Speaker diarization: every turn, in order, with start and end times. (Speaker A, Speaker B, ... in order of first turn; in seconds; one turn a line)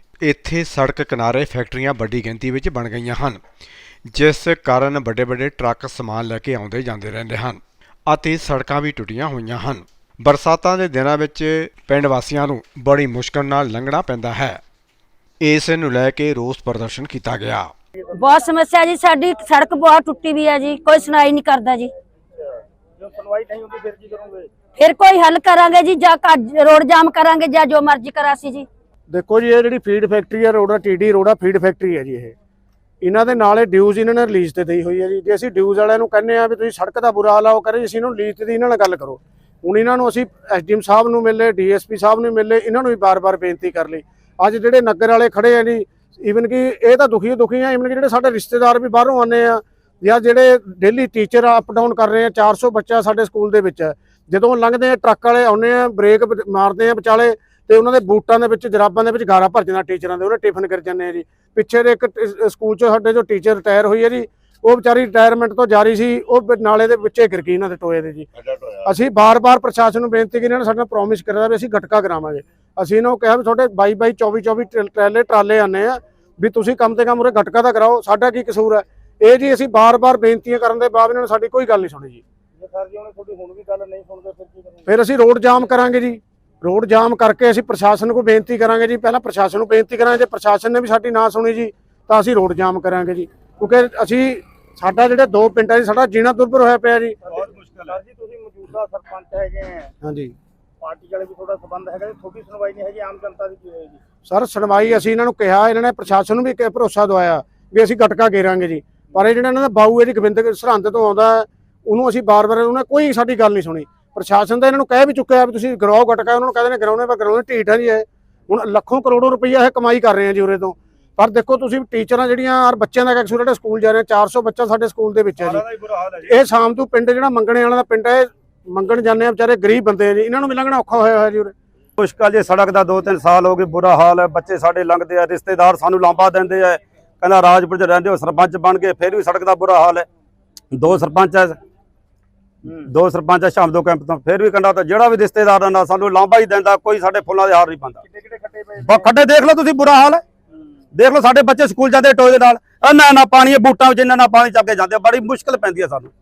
Speaker A: 0.2-3.4
Speaker A: 4.1-14.6
Speaker A: 15.4-17.7
Speaker B: 18.2-21.9
Speaker C: 22.4-24.5
Speaker B: 24.8-28.7
Speaker D: 29.1-32.3
Speaker D: 33.0-68.3
Speaker D: 68.8-82.2
Speaker C: 82.5-85.0
Speaker D: 84.8-97.2
Speaker C: 97.2-99.9
Speaker D: 100.0-100.3
Speaker C: 100.8-104.0
Speaker D: 104.2-125.6
Speaker E: 125.7-126.0
Speaker D: 126.2-131.5
Speaker E: 132.2-140.0
Speaker E: 140.7-141.5
Speaker E: 142.9-148.0
Speaker C: 148.0-149.2
Speaker E: 148.9-150.2
Speaker E: 150.9-156.1